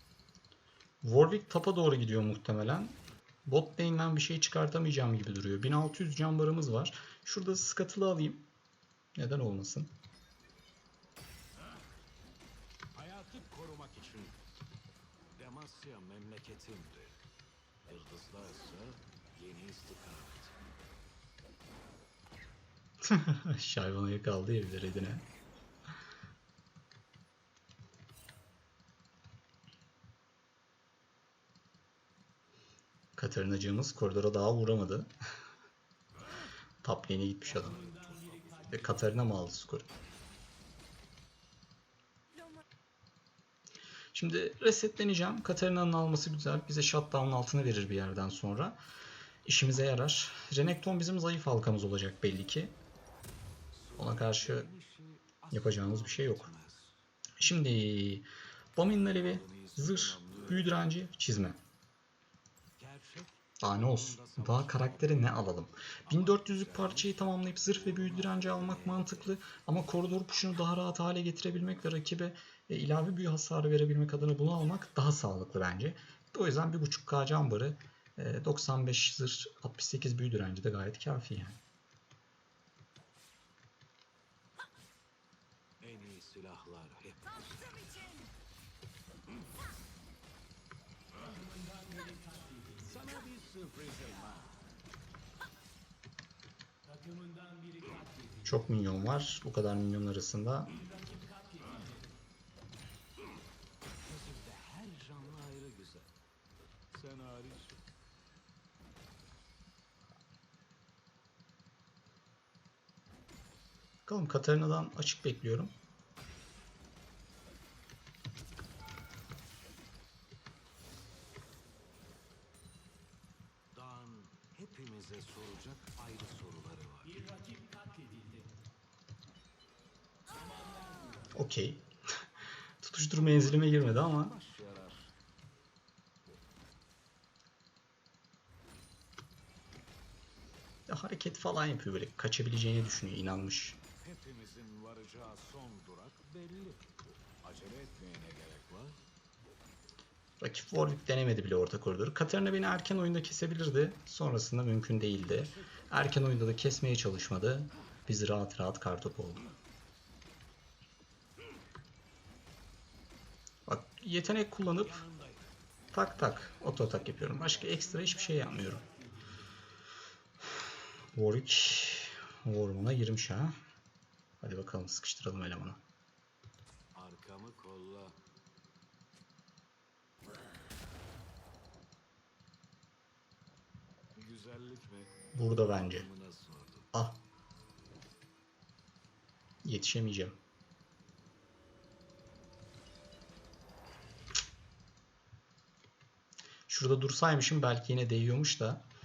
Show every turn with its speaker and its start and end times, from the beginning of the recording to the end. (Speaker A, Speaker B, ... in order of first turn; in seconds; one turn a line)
Speaker A: 1.0-8.5
Speaker A: 9.2-9.9
Speaker B: 12.9-14.4
Speaker B: 15.3-17.2
Speaker B: 17.9-20.6
Speaker A: 23.0-25.2
Speaker A: 33.1-35.1
Speaker A: 36.8-37.8
Speaker B: 37.5-39.1
Speaker A: 38.6-39.9
Speaker A: 44.1-48.8
Speaker A: 49.5-52.8
Speaker B: 53.7-57.0
Speaker A: 54.0-54.7
Speaker A: 55.5-56.5
Speaker A: 57.4-61.6
Speaker B: 59.1-60.9
Speaker B: 62.8-65.4
Speaker A: 63.6-81.6
Speaker B: 66.0-69.4
Speaker B: 85.8-88.2
Speaker B: 92.6-94.6
Speaker B: 97.1-97.9
Speaker A: 98.4-100.7
Speaker B: 100.8-101.8
Speaker B: 104.0-106.1
Speaker B: 106.9-107.8
Speaker A: 114.0-115.7
Speaker B: 123.7-127.7
Speaker A: 131.3-131.8
Speaker A: 132.8-134.3
Speaker B: 133.1-135.1
Speaker A: 140.9-143.8
Speaker B: 144.0-146.9
Speaker B: 147.4-149.0
Speaker A: 150.4-159.4
Speaker B: 155.2-155.8
Speaker A: 163.7-165.0
Speaker B: 164.7-168.0
Speaker A: 165.9-168.9
Speaker A: 171.1-173.5
Speaker A: 174.4-175.8
Speaker B: 176.9-178.2
Speaker B: 184.1-186.9
Speaker A: 185.3-186.1
Speaker A: 186.9-187.2
Speaker A: 189.6-190.3
Speaker A: 196.7-198.8